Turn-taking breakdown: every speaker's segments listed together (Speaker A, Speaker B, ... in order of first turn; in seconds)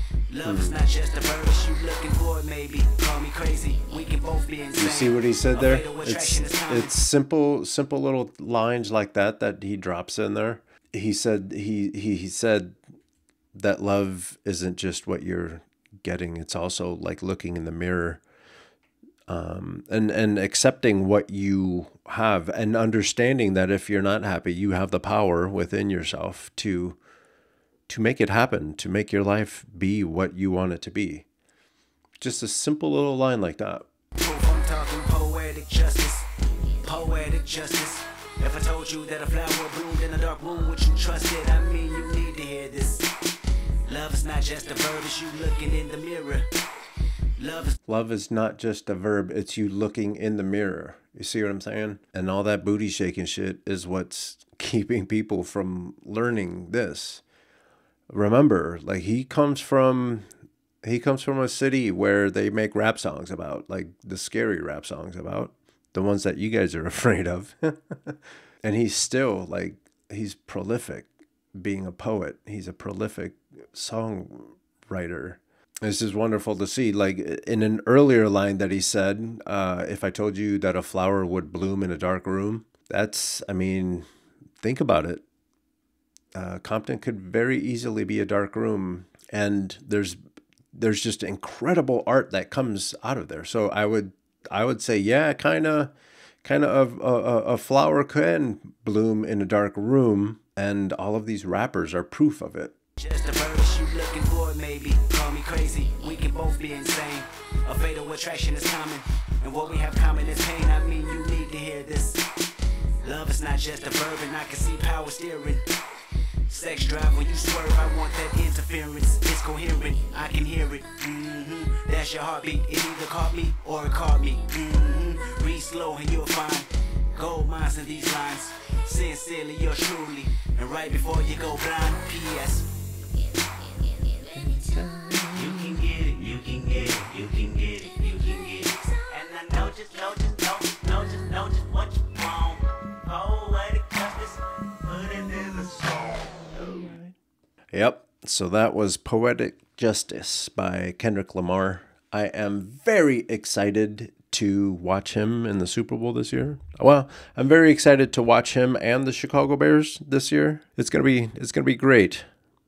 Speaker A: 0.3-6.9, 34.2-36.3, 36.8-43.1, 43.9-46.5, 47.4-47.7, 103.0-112.2, 113.0-115.7, 116.5-132.7, 135.4-146.5
Speaker B: 0.5-0.8, 4.8-12.8, 13.6-18.2, 19.3-27.0, 27.9-31.3, 32.2-33.9, 47.9-57.2, 58.1-60.3, 60.8-84.1, 84.6-85.2, 86.3-90.2, 90.7-95.9, 96.4-102.7, 134.3-135.9, 146.6-147.1, 147.7-162.3